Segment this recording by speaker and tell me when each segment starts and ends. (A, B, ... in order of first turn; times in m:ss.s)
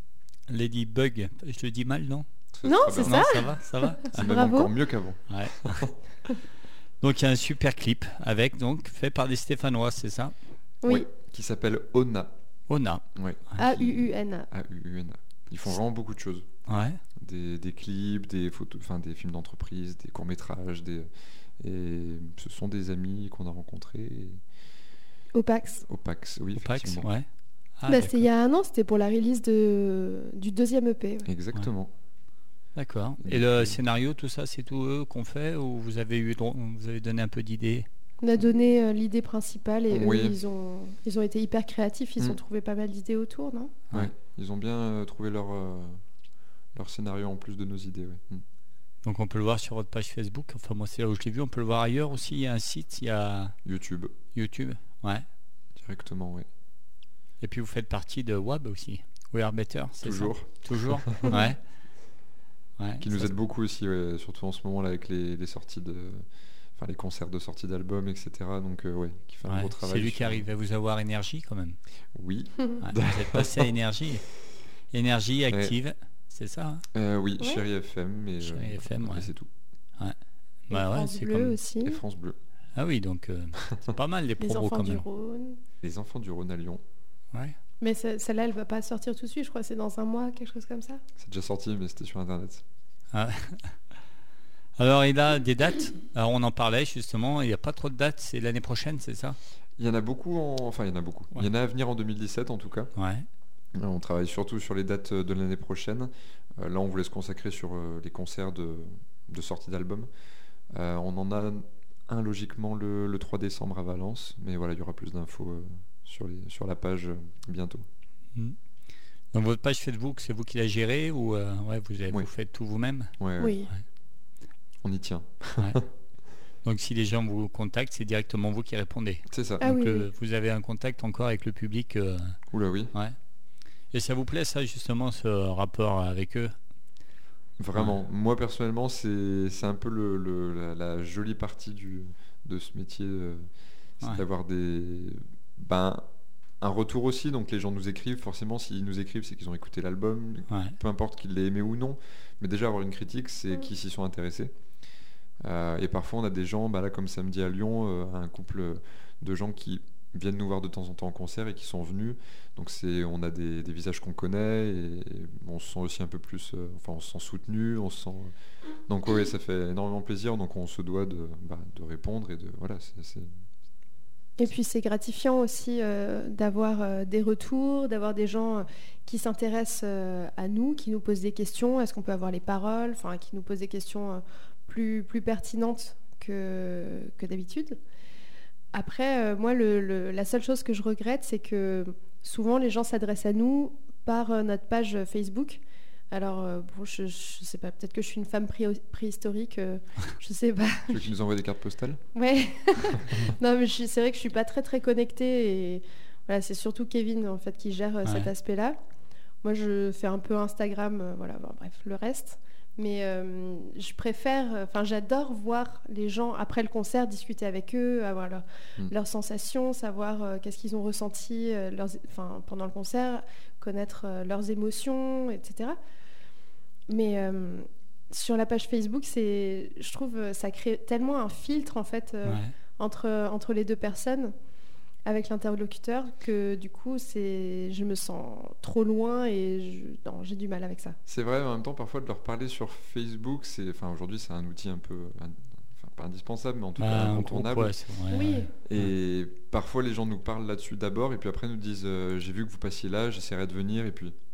0:00.5-0:02.3 A
0:02.5-0:05.9 B
0:02.6-0:04.7 C
0:02.9-0:04.3 A
0:05.3-0:05.9 A
0:07.0-0:10.3 A
0:10.8-0:11.1 C
0:10.9-0:12.3 B
0:12.7-0:13.0 A
0:13.2-0:16.5 B
0:13.6-0:14.5 C
0:16.7-0:17.0 A
0:17.2-0:24.4 B
0:25.4-0:25.8 C
0:25.9-0:27.1 B
0:26.6-0:27.3 A
0:27.8-0:28.3 A
0:27.9-0:31.3 C
0:31.2-0:31.9 B
0:32.8-0:37.9 A
0:33.2-0:33.8 B
0:38.2-0:43.7 C
0:39.9-0:40.4 B
0:43.9-0:46.0 B
0:46.8-0:48.4 B
0:49.0-0:53.6 A
0:53.6-0:54.2 B
0:54.4-0:55.2 A
0:55.8-0:56.5 B
0:57.4-1:01.6 A
1:00.0-1:01.3 B
1:02.8-1:03.3 A
1:03.0-1:06.2 B
1:06.8-1:10.5 B
1:09.5-1:11.8 A
1:12.1-1:13.7 B
1:12.8-1:14.2 A
1:14.9-1:16.8 A
1:15.5-1:15.8 B
1:16.9-1:19.5 B
1:18.4-1:19.3 A
1:20.7-1:21.6 A
1:20.7-1:22.0 C
1:21.8-1:22.4 B
1:22.8-1:25.0 A
1:24.4-1:25.6 C
1:25.8-1:26.8 B
1:27.8-1:31.0 C
1:31.2-1:32.6 B
1:33.1-1:33.7 A
1:34.8-1:39.4 A
1:39.8-1:42.9 B
1:43.0-1:43.3 A
1:43.8-1:50.1 B
1:50.7-1:57.9 B
1:59.3-2:03.1 A
2:03.2-2:03.6 B
2:03.4-2:03.7 C
2:04.8-2:05.8 B
2:06.6-2:12.4 A
2:09.3-2:09.7 B
2:09.6-2:10.1 C
2:12.5-2:12.9 B
2:13.9-2:16.5 A
2:17.6-2:23.5 B
2:24.0-2:26.1 B
2:26.6-2:34.5 B
2:30.5-2:30.8 A
2:35.4-2:48.3 B
2:48.9-2:53.3 B
2:54.4-3:07.8 C
3:08.7-3:21.1 C
3:20.9-3:22.0 B
3:22.2-3:28.8 C
3:28.0-3:28.3 A
3:29.4-3:45.8 C
3:46.9-3:54.3 C
3:52.2-3:52.5 A
3:55.1-4:01.0 C
4:01.1-4:07.7 B
4:06.8-4:08.4 A
4:08.1-4:08.5 C
4:08.6-4:14.1 B